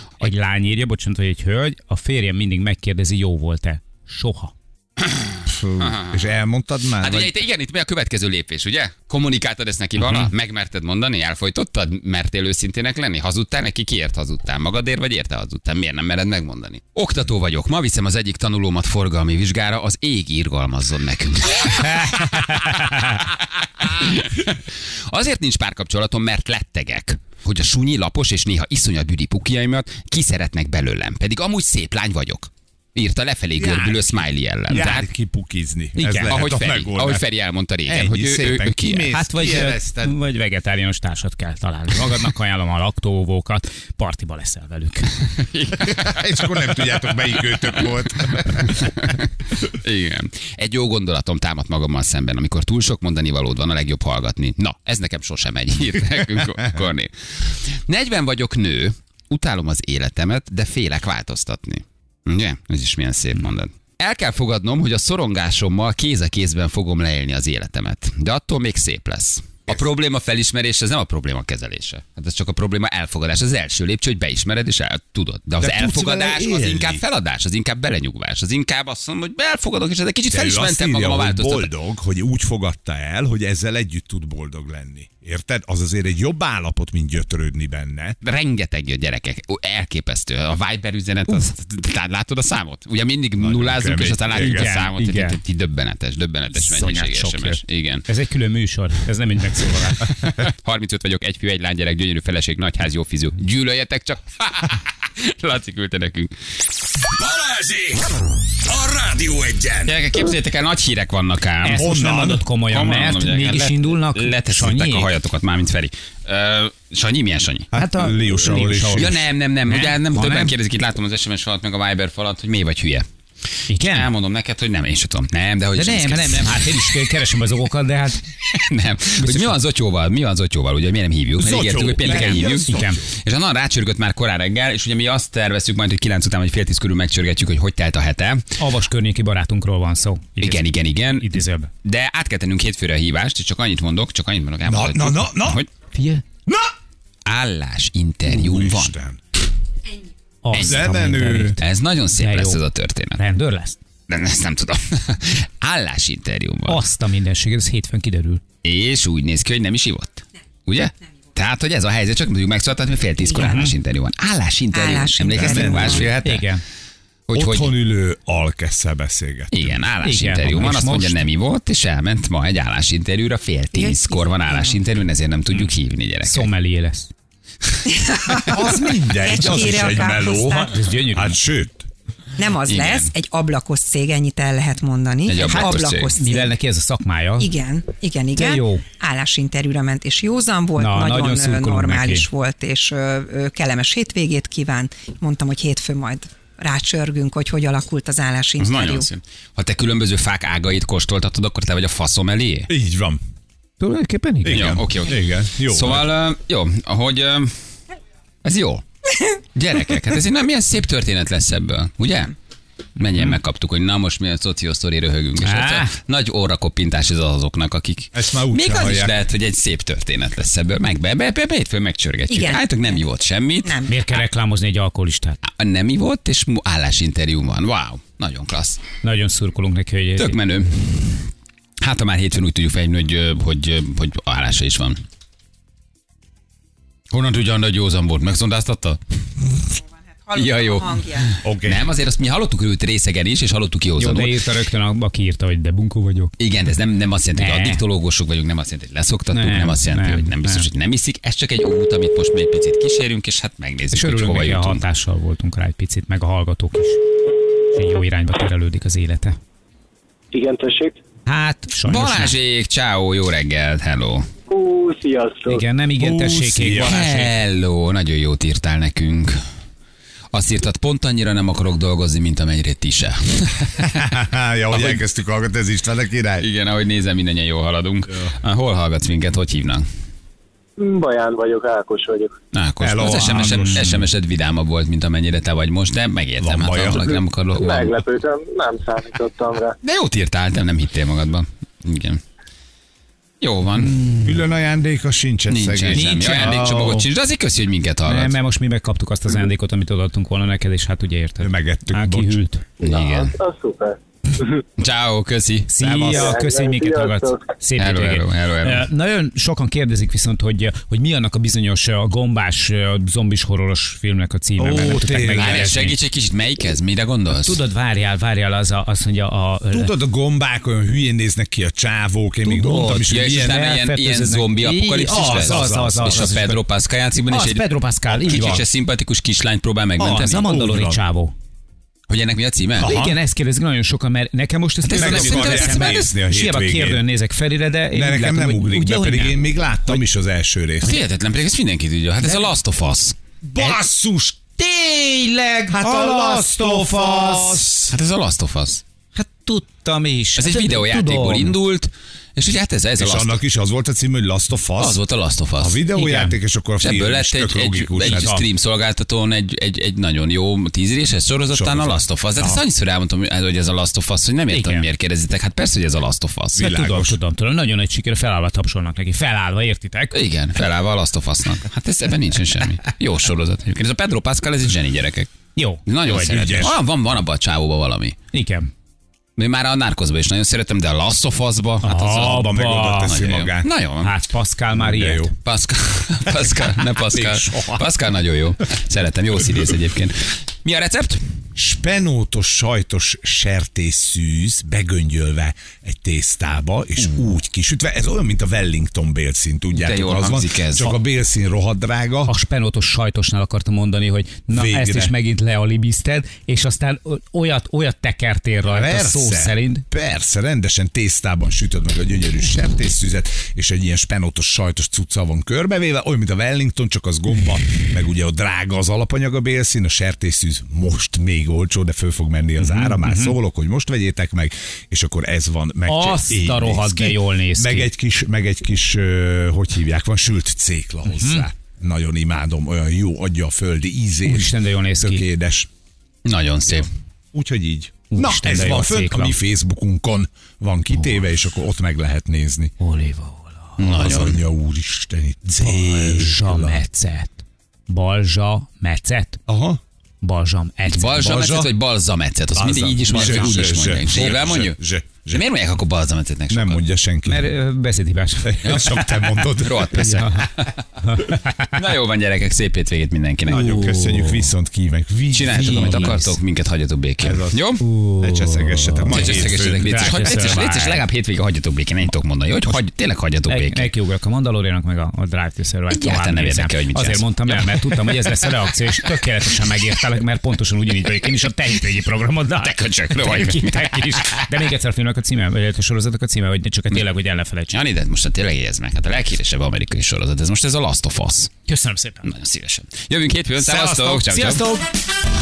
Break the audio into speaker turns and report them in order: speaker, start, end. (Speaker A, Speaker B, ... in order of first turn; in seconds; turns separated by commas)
Speaker A: 0.2-4.5, Speaker B: 5.0-6.4, Speaker C: 5.5-7.3, Speaker B: 7.0-35.1, Speaker C: 33.6-37.2, Speaker A: 36.0-36.4, Speaker B: 36.3-39.1, Speaker C: 37.9-40.2, Speaker A: 39.1-45.1, Speaker B: 45.5-46.7, Speaker C: 45.8-48.9, Speaker B: 47.5-81.7, Speaker C: 75.6-77.0, Speaker C: 80.3-88.2, Speaker B: 88.2-98.1, Speaker C: 93.4-94.7, Speaker A: 94.4-95.4, Speaker A: 96.5-100.2, Speaker B: 100.1-106.3, Speaker D: 107.2-108.1, Speaker D: 108.7-110.0, Speaker B: 109.9-111.9, Speaker A: 111.6-115.1, Speaker C: 111.7-112.5, Speaker B: 112.7-117.7, Speaker C: 117.7-119.3, Speaker A: 117.8-119.1, Speaker B: 119.0-123.1, Speaker A: 119.7-120.5, Speaker A: 123.7-124.1, Speaker B: 123.8-126.8, Speaker A: 125.8-128.2, Speaker B: 128.5-138.5, Speaker A: 129.2-129.6, Speaker C: 131.3-133.1, Speaker A: 132.1-133.0, Speaker A: 138.6-141.7, Speaker B: 140.4-145.7, Speaker C: 144.7-145.6, Speaker A: 145.9-146.2, Speaker C: 146.5-146.7, Speaker B: 147.3-148.9, Speaker C: 148.3-149.2, Speaker A: 150.4-152.6, Speaker C: 150.5-151.6, Speaker B: 151.6-153.2, Speaker A: 153.2-153.8, Speaker B: 154.1-156.8, Speaker A: 156.7-158.4, Speaker B: 158.6-166.5, Speaker A: 163.3-163.7, Speaker E: 164.7-166.2, Speaker C: 165.3-166.1, Speaker A: 166.2-166.6, Speaker B: 167.3-167.7, Speaker C: 167.3-169.8, Speaker B: 169.5-176.5, Speaker A: 170.0-171.2, Speaker E: 173.7-174.8, Speaker A: 176.2-177.1, Speaker E: 177.9-180.7, Speaker C: 178.5-181.9, Speaker A: 179.9-181.4, Speaker E: 182.4-186.5, Speaker B: 182.7-183.1, Speaker B: 185.3-186.1, Speaker A: 185.4-187.5, Speaker E: 187.4-199.1, Speaker A: 188.4-188.8, Speaker A: 190.8-192.3, Speaker B: 198.6-202.7, Speaker C: 202.7-203.2, Speaker A: 203.8-204.7, Speaker C: 204.4-206.1, Speaker B: 204.5-207.5, Speaker B: 208.4-208.8, Speaker B: 209.6-212.3, Speaker B: 213.0-223.8, Speaker A: 215.4-215.9, Speaker C: 218.1-219.1, Speaker E: 222.3-223.1, Speaker E: 223.6-224.1, Speaker A: 223.9-225.4, Speaker B: 225.4-228.8, Speaker A: 229.0-230.4, Speaker B: 230.2-231.3, Speaker B: 231.8-235.0, Speaker B: 237.1-239.0, Speaker E: 240.2-241.4, Speaker B: 240.3-244.3, Speaker C: 241.4-241.9, Speaker A: 244.0-246.3, Speaker B: 246.4-254.8, Speaker A: 247.4-247.8, Speaker A: 249.3-250.7, Speaker A: 253.9-257.0, Speaker A: 257.7-259.4, Speaker F: 260.3-261.0, Speaker A: 261.3-262.4, Speaker B: 261.9-264.3, Speaker F: 264.5-265.6, Speaker A: 265.5-267.3, Speaker C: 266.0-267.3, Speaker B: 266.7-269.4, Speaker B: 270.3-274.0, Speaker C: 273.8-276.5, Speaker B: 274.7-275.0, Speaker B: 276.4-279.9, Speaker F: 280.8-282.3, Speaker B: 282.5-288.0, Speaker C: 282.8-284.1, Speaker A: 283.2-284.1, Speaker C: 286.4-287.2, Speaker F: 287.5-289.8, Speaker B: 289.8-292.2, Speaker B: 293.4-294.0, Speaker A: 293.8-294.4, Speaker C: 294.2-297.1, Speaker B: 295.5-298.4, Speaker A: 295.9-296.6, Speaker A: 298.1-302.6, Speaker C: 301.4-302.4, Speaker B: 302.8-303.3, Speaker F: 302.8-304.6, Speaker B: 304.8-305.7, Speaker A: 305.7-315.9, Speaker C: 305.8-306.4, Speaker F: 306.0-307.4, Speaker B: 307.8-308.9, Speaker C: 314.6-315.9, Speaker B: 315.3-317.6, Speaker A: 317.4-319.9, Speaker C: 319.7-323.7, Speaker A: 322.4-326.6, Speaker B: 323.1-327.7, Speaker C: 325.1-326.6, Speaker A: 327.3-328.6, Speaker B: 328.2-330.5, Speaker C: 328.3-328.6, Speaker A: 330.0-331.3, Speaker C: 330.4-331.0, Speaker B: 332.1-332.9, Speaker C: 332.8-333.2, Speaker A: 332.8-340.0, Speaker B: 334.8-336.1, Speaker C: 334.9-337.0, Speaker C: 337.9-341.0, Speaker B: 340.8-343.2, Speaker C: 343.4-344.4, Speaker A: 343.6-343.9, Speaker A: 344.5-347.7, Speaker C: 345.7-347.9, Speaker B: 347.9-348.8, Speaker A: 349.1-351.6, Speaker B: 350.4-353.4, Speaker C: 353.0-355.0, Speaker B: 354.8-355.8, Speaker C: 355.6-358.4, Speaker A: 355.9-356.4, Speaker B: 356.8-366.7, Speaker A: 358.0-358.4, Speaker C: 361.5-362.6, Speaker A: 364.5-364.9, Speaker A: 366.6-370.2, Speaker C: 366.6-367.2, Speaker B: 370.1-375.3, Speaker A: 375.6-376.7, Speaker B: 375.9-378.2, Speaker C: 376.1-376.8, Speaker A: 378.3-378.7, Speaker B: 379.4-382.4, Speaker A: 381.8-383.3, Speaker C: 382.0-383.7, Speaker B: 383.0-384.1, Speaker A: 384.0-385.3, Speaker C: 384.8-385.3, Speaker B: 385.4-391.2, Speaker C: 386.3-387.9, Speaker C: 391.6-402.3, Speaker B: 399.7-400.9, Speaker A: 402.3-409.9, Speaker C: 404.5-405.1, Speaker C: 408.7-435.7, Speaker A: 422.6-423.4, Speaker A: 425.9-427.9, Speaker A: 431.1-431.5, Speaker A: 434.2-435.2, Speaker B: 436.2-436.9, Speaker C: 436.7-442.7, Speaker A: 438.1-439.4, Speaker A: 440.9-441.2, Speaker A: 442.8-444.1, Speaker B: 443.8-444.4, Speaker C: 443.8-446.8, Speaker A: 445.6-449.4, Speaker C: 449.5-449.8, Speaker A: 450.2-451.5, Speaker B: 450.9-454.8, Speaker C: 451.2-451.7, Speaker C: 452.5-455.4, Speaker A: 453.1-453.6, Speaker B: 455.3-456.8, Speaker C: 456.5-457.5, Speaker A: 457.3-458.7, Speaker C: 458.4-460.3, Speaker B: 458.6-463.7, Speaker A: 460.0-460.5, Speaker A: 461.0-461.7, Speaker C: 463.5-466.2, Speaker A: 463.5-464.5, Speaker B: 465.3-467.8, Speaker A: 465.5-466.4, Speaker C: 467.2-470.2, Speaker A: 467.8-471.0, Speaker B: 469.1-473.9, Speaker A: 473.5-487.7, Speaker B: 475.9-478.5, Speaker B: 482.6-484.6, Speaker B: 487.7-491.5, Speaker A: 491.7-492.3, Speaker B: 492.2-494.7, Speaker A: 493.6-494.8